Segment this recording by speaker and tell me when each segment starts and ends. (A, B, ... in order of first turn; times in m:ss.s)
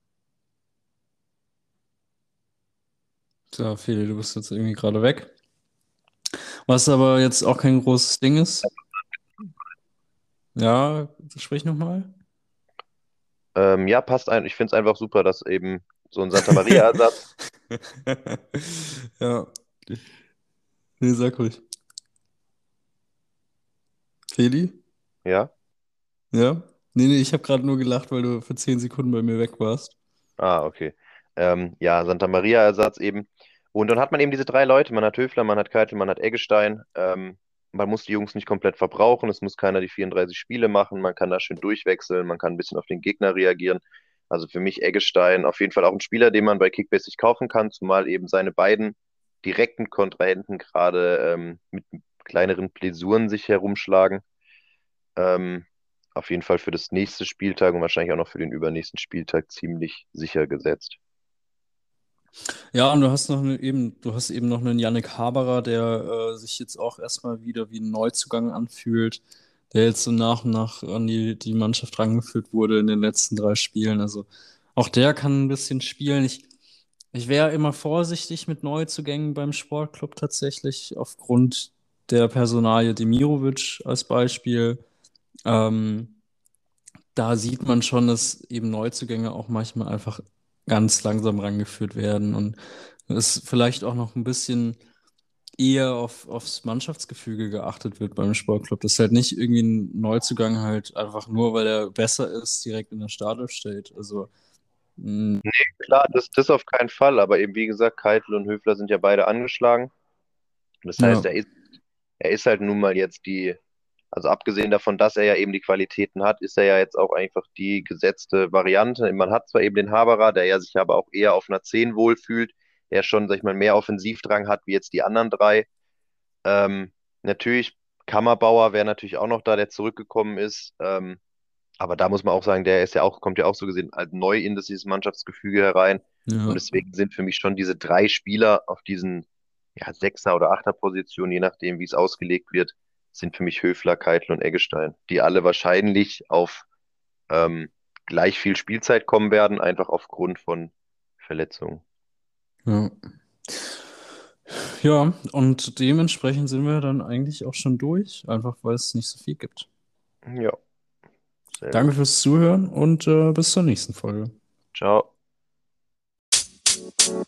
0:03.5-0:05.3 A
0:06.7-0:08.7 A
0:10.6-0:12.1 A
0:13.6-0:17.2 B
0:16.5-0:16.8 A
0:17.8-0:20.0 A
0:21.0-0:21.6 A
0:24.3-0:24.8 A
0:25.2-0:25.5 B
0:26.3-0:30.0 A
0:30.4-0:54.2 B
0:55.2-1:01.0 B
1:02.7-1:16.5 A
1:17.1-1:24.8 A
1:25.5-1:26.2 A
1:27.2-1:32.6 A
1:33.1-1:34.8 A
1:35.6-1:44.3 A
1:45.0-1:45.4 A
1:45.5-1:49.9 B
1:50.8-1:51.5 B
1:51.0-1:51.3 A
1:52.2-1:53.6 B
1:54.1-2:05.7 B
2:06.4-2:11.2 B
2:11.8-2:26.6 B
2:16.3-2:16.6 A
2:27.3-2:31.8 B
2:32.7-2:32.9 A
2:33.5-2:33.8 A
2:34.5-2:39.7 A
2:40.3-2:40.6 B
2:41.6-2:41.9 B
2:41.7-2:44.3 A
2:44.7-2:45.1 B